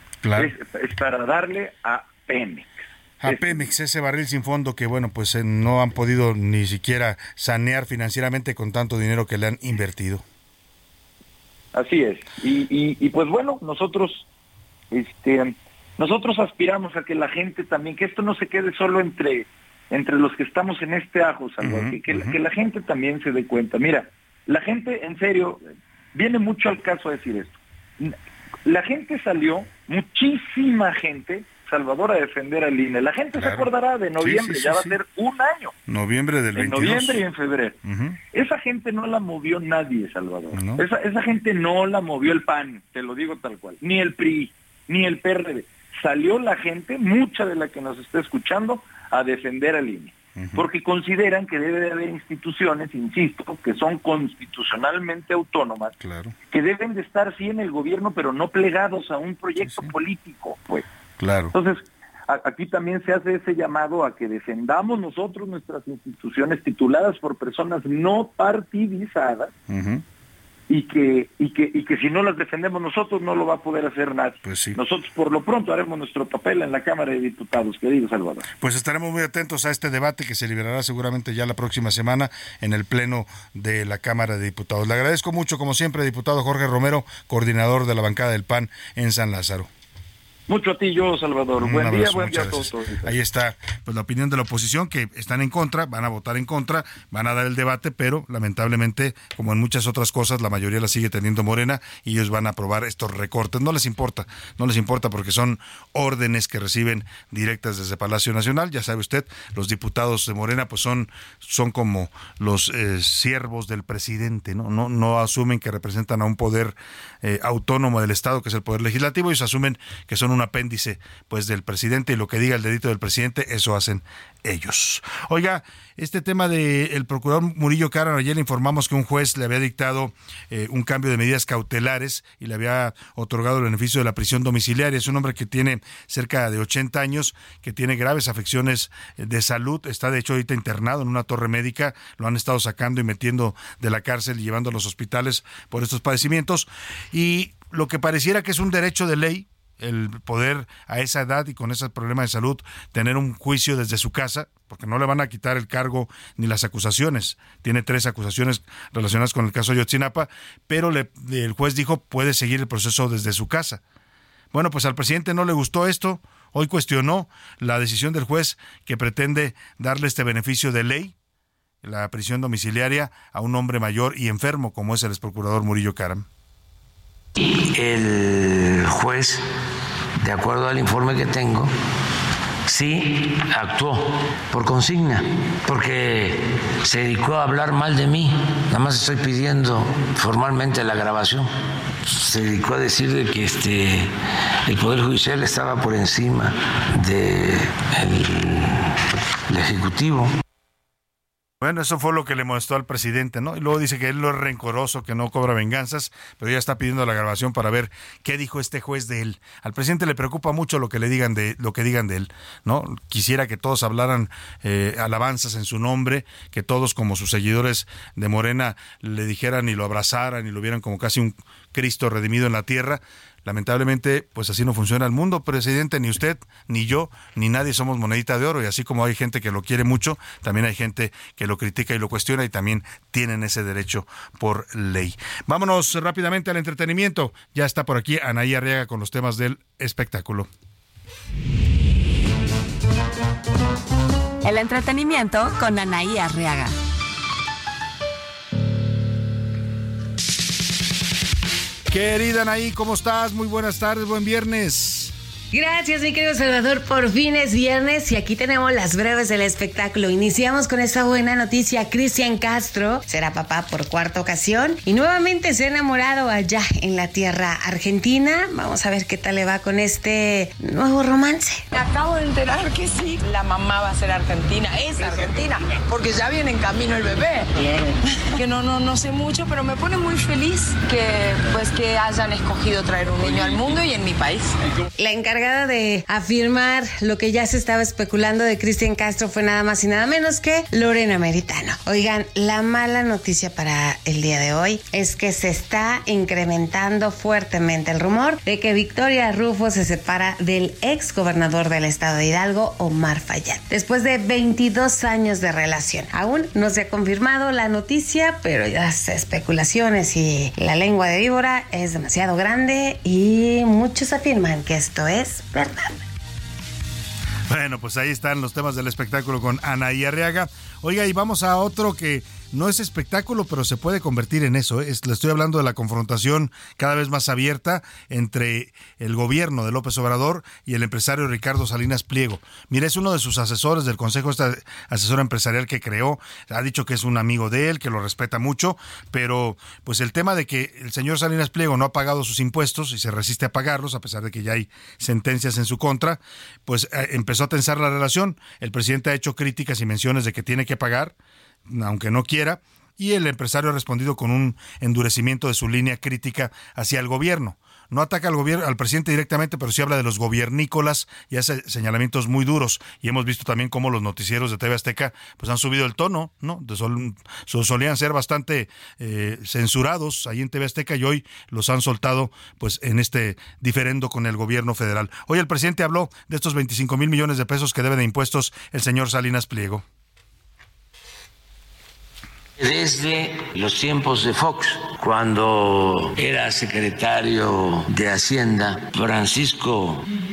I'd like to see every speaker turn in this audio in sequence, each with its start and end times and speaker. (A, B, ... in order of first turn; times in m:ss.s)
0:00.2-0:00.5 A
0:00.3-0:03.6 B
0:03.2-0:10.2 A
0:11.7-0:14.3 B
0:14.9-0:25.6 B
0:21.6-0:22.4 A
0:26.1-0:28.1 B
0:28.6-0:35.7 B
0:33.4-0:33.7 A
0:34.2-0:35.0 A
0:35.9-0:37.2 A
0:36.5-0:37.8 B
0:37.8-0:38.2 A
0:38.3-0:55.9 B
0:40.5-0:40.8 A
0:50.4-0:50.6 A
0:56.0-0:56.3 A
0:56.5-1:00.8 B
0:59.6-0:59.9 A
1:01.2-1:01.5 A
1:01.5-1:09.5 B
1:09.7-1:10.0 A
1:10.7-1:18.4 B
1:14.4-1:14.8 A
1:18.6-1:29.7 A
1:30.5-1:33.1 B
1:31.6-2:43.8 A
2:44.5-2:51.1 A
2:51.8-2:56.2 A
2:57.4-2:59.4 C
3:00.2-3:01.7 C
3:02.6-3:11.5 C
3:12.0-3:14.1 C
3:14.6-3:20.3 C
3:21.6-4:00.5 A
4:04.4-4:06.7 D
4:11.9-4:15.1 A
4:15.5-4:31.6 E
4:31.7-4:37.6 F
4:38.3-4:44.5 F
4:45.0-5:15.9 E
5:17.5-5:51.1 A
5:51.7-6:19.8 A
6:22.6-6:30.0 C